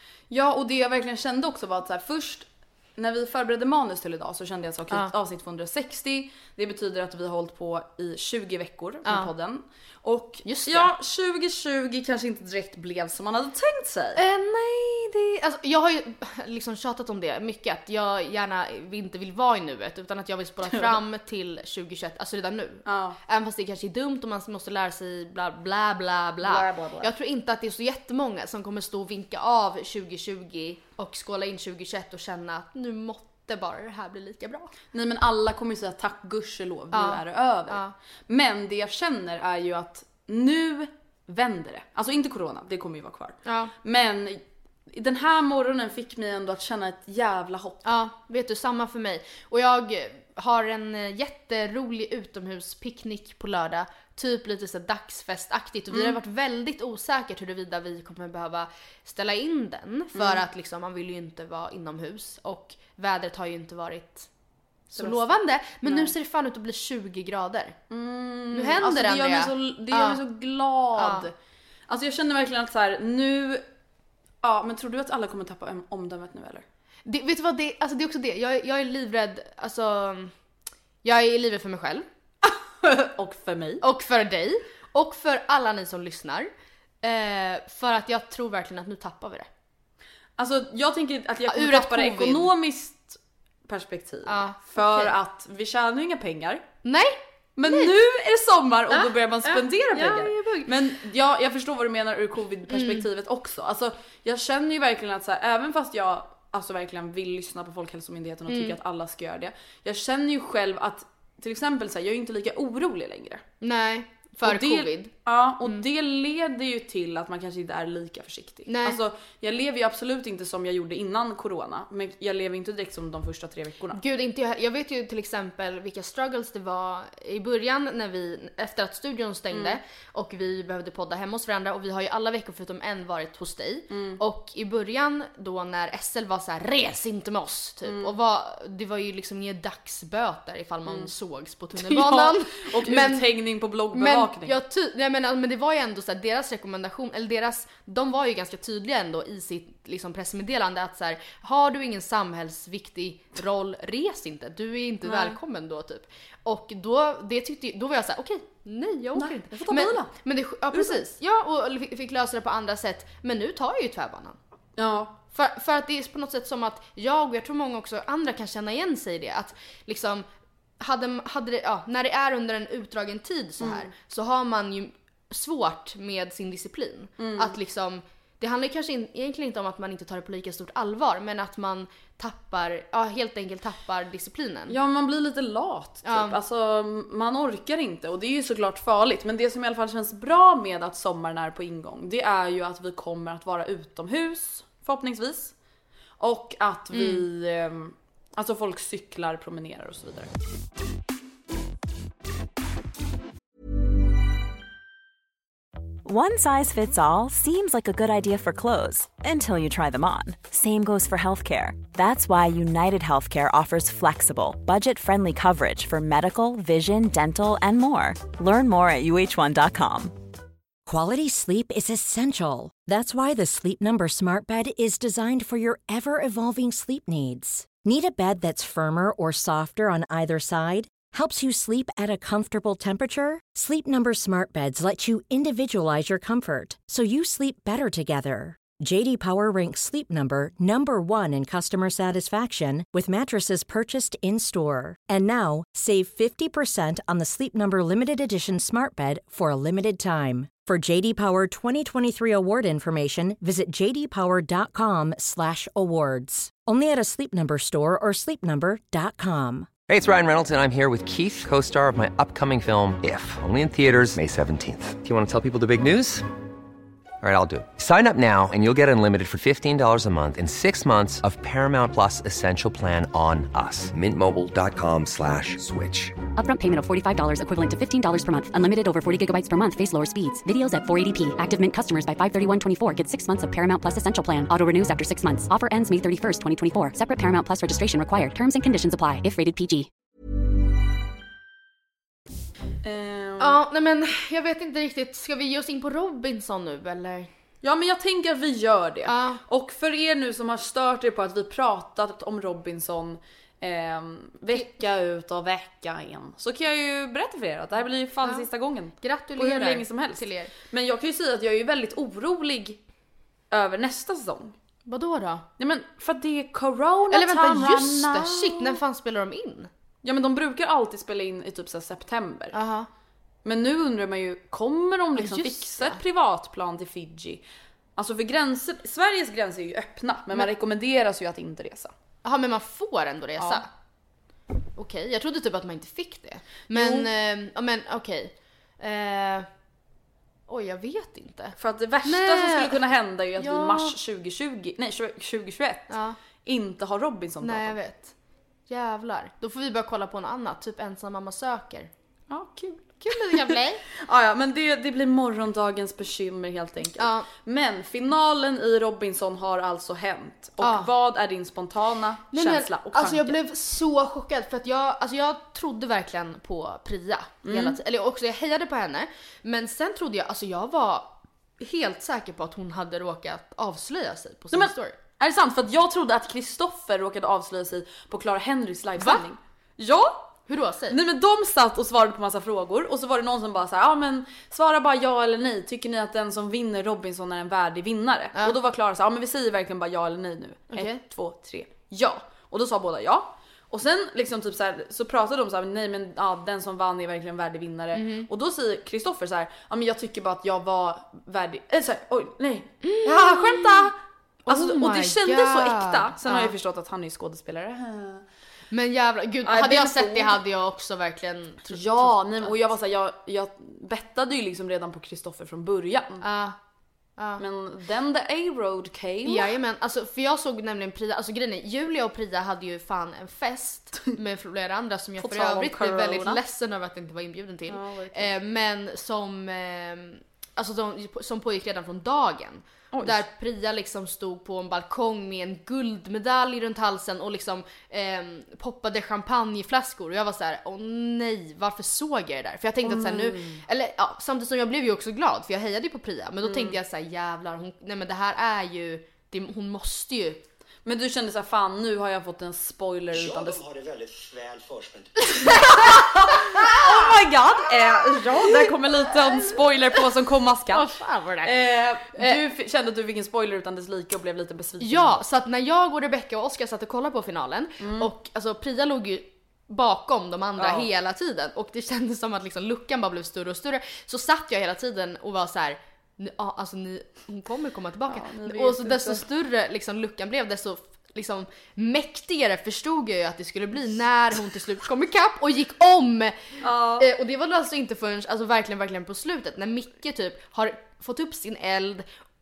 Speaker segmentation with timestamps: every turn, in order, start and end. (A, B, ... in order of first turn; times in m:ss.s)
0:00.3-0:14.2 A
0:10.4-0:10.9 B
0:14.2-0:34.7 B
0:20.7-0:21.0 A
0:22.8-0:23.2 A
0:26.4-0:27.1 A
0:34.9-0:47.8 A
0:36.9-0:37.9 B
0:43.5-0:43.7 B
0:47.8-1:04.3 B
0:55.9-0:56.2 A
1:00.1-1:00.4 A
1:04.9-1:07.8 B
1:04.9-1:06.1 A
1:07.9-1:11.3 A
1:08.5-1:10.2 B
1:11.0-1:11.3 B
1:11.9-1:13.6 A
1:14.4-1:16.6 A
1:17.0-1:20.3 B
1:21.0-1:22.0 B
1:22.4-1:23.8 A
1:23.8-1:26.5 B
1:27.0-1:29.5 B
1:30.4-1:36.6 A
1:31.5-1:32.5 B
1:34.2-1:35.1 B
1:36.8-1:37.9 B
1:37.6-1:53.4 A
1:38.9-1:40.7 B
1:42.7-1:43.0 B
1:48.5-1:48.8 B
1:53.6-1:55.1 B
1:54.4-2:04.0 A
1:58.7-1:59.0 B
2:03.9-2:23.3 B
2:09.5-2:09.8 A
2:13.9-2:14.2 A
2:17.8-2:18.2 A
2:20.8-2:21.1 A
2:21.8-2:24.5 A
2:23.9-2:44.4 B
2:35.0-2:35.4 A
2:39.1-2:40.1 A
2:40.7-2:41.0 A
2:44.8-2:45.2 A
2:45.3-2:50.2 B
2:50.8-3:04.8 B
2:53.6-2:53.9 A
2:57.2-2:57.6 A
3:04.7-3:15.5 A
3:06.0-3:06.4 B
3:16.2-3:20.3 A
3:16.9-3:17.2 B
3:26.0-3:40.1 C
3:40.8-4:19.7 D
4:19.9-4:26.2 E
4:27.2-4:36.1 E
4:36.4-4:49.9 F
4:52.8-4:53.6 A
4:53.4-4:57.3 B
4:57.6-5:12.8 A
4:59.0-4:59.4 B
5:09.0-5:10.5 B
5:13.5-5:14.5 A
5:14.8-5:15.4 B
5:15.6-5:18.8 A
5:17.1-5:19.7 B
5:20.0-5:22.6 A
5:22.5-5:22.9 B
5:23.4-5:27.4 A
5:25.2-5:26.0 B
5:28.0-5:31.9 A
5:32.2-5:33.7 B
5:33.4-5:33.6 A
5:34.8-5:39.5 B
5:36.7-5:37.1 A
5:40.5-5:42.8 B
5:41.6-5:47.7 A
5:43.4-5:43.9 B
5:45.9-5:46.2 B
5:47.4-5:48.1 B
5:48.7-5:51.9 B
5:52.3-6:03.4 A
5:53.0-5:53.8 B
5:57.0-5:57.3 B
6:00.6-6:00.9 B
6:02.3-6:14.9 B
6:07.4-6:07.8 A
6:14.5-6:20.4 A
6:19.0-6:19.2 B
6:20.5-6:21.0 B
6:20.9-6:44.0 A
6:30.7-6:31.0 B
6:37.9-6:38.3 B
6:42.8-6:43.9 B
6:44.5-6:46.5 B
6:44.5-6:48.2 A
6:48.7-6:52.5 B
6:49.4-6:50.4 A
6:51.7-6:56.2 A
6:56.2-6:56.6 B
6:57.2-6:57.4 B
6:57.4-6:59.6 A
6:59.2-7:30.4 B
7:05.2-7:06.4 A
7:07.7-7:08.3 A
7:12.9-7:13.2 A
7:22.8-7:23.6 A
7:26.4-7:26.8 A
7:30.8-7:33.6 A
7:33.1-7:35.2 G
7:35.4-7:40.9 A
7:40.7-7:41.5 B
7:41.4-7:45.2 A
7:44.8-8:12.0 B
7:47.8-7:48.1 A
7:50.6-7:50.9 A
7:58.1-7:59.2 A
8:06.6-8:07.1 A